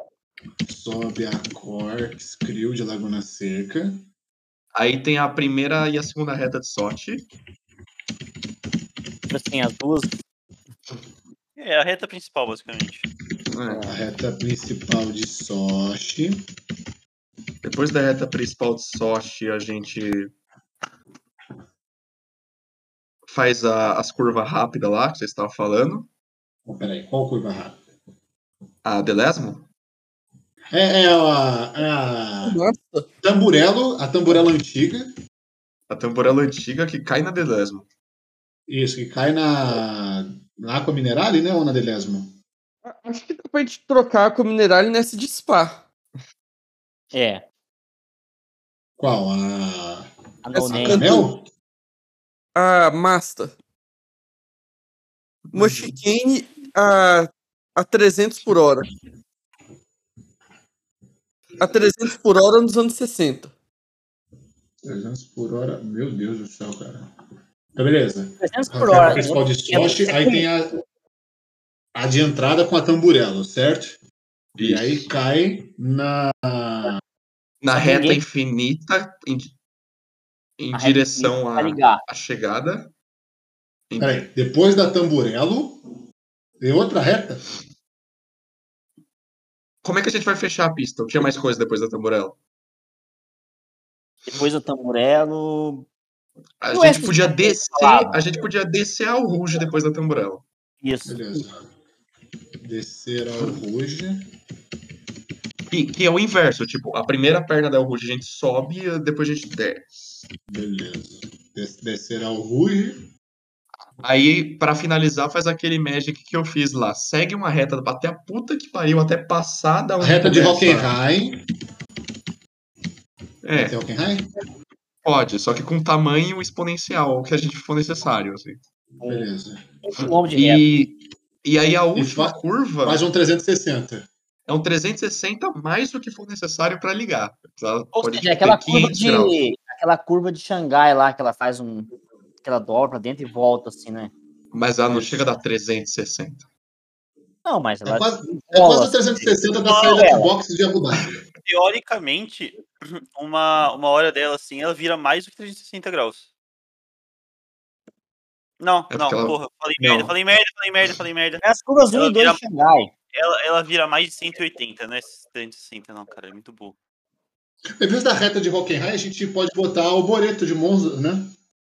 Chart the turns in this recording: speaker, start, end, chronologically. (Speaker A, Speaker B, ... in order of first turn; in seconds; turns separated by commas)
Speaker A: 0.7-4.0, Speaker B: 4.7-7.3, Speaker C: 9.3-10.1, Speaker D: 11.6-13.1, Speaker B: 13.5-13.9, Speaker A: 13.8-16.4, Speaker B: 17.6-20.3, Speaker B: 23.2-26.1, Speaker A: 26.6-27.8, Speaker B: 28.8-29.6, Speaker A: 30.7-32.6, Speaker E: 32.4-33.1, Speaker A: 33.2-35.1, Speaker B: 35.9-37.9, Speaker A: 38.7-42.3, Speaker E: 42.9-45.8, Speaker C: 47.1-47.4, Speaker A: 49.0-51.5, Speaker C: 50.5-51.2, Speaker E: 52.5-53.5, Speaker B: 55.5-55.9, Speaker E: 55.5-58.9, Speaker E: 61.6-63.5, Speaker A: 64.8-67.1, Speaker A: 67.7-70.7, Speaker C: 68.4-70.4, Speaker A: 71.9-74.0, Speaker A: 74.6-77.0, Speaker B: 74.6-75.1, Speaker B: 77.6-79.5, Speaker C: 77.7-78.2, Speaker B: 80.6-82.9, Speaker C: 80.7-82.0, Speaker B: 83.9-84.1, Speaker A: 84.0-85.8, Speaker A: 86.6-87.4, Speaker B: 89.8-92.4, Speaker C: 94.3-95.8, Speaker B: 96.6-100.4, Speaker C: 96.7-98.2, Speaker C: 100.8-101.2, Speaker A: 101.0-101.7, Speaker A: 102.6-104.2, Speaker B: 105.7-110.2, Speaker A: 110.5-113.0, Speaker B: 114.0-120.9, Speaker A: 120.0-121.4, Speaker B: 123.4-123.8, Speaker A: 123.6-124.3, Speaker B: 125.0-128.6, Speaker A: 129.0-129.6, Speaker C: 129.0-129.3, Speaker C: 129.8-130.6, Speaker B: 130.3-133.0, Speaker A: 131.9-134.1, Speaker B: 134.5-139.4, Speaker C: 137.9-141.9, Speaker C: 142.4-144.1, Speaker B: 144.5-146.4, Speaker A: 144.9-145.2, Speaker C: 147.4-150.3, Speaker A: 147.8-151.2, Speaker D: 149.7-150.0, Speaker D: 151.4-156.3, Speaker D: 158.6-162.4, Speaker B: 158.9-160.1, Speaker C: 161.4-162.9, Speaker D: 163.1-166.8, Speaker A: 167.8-171.3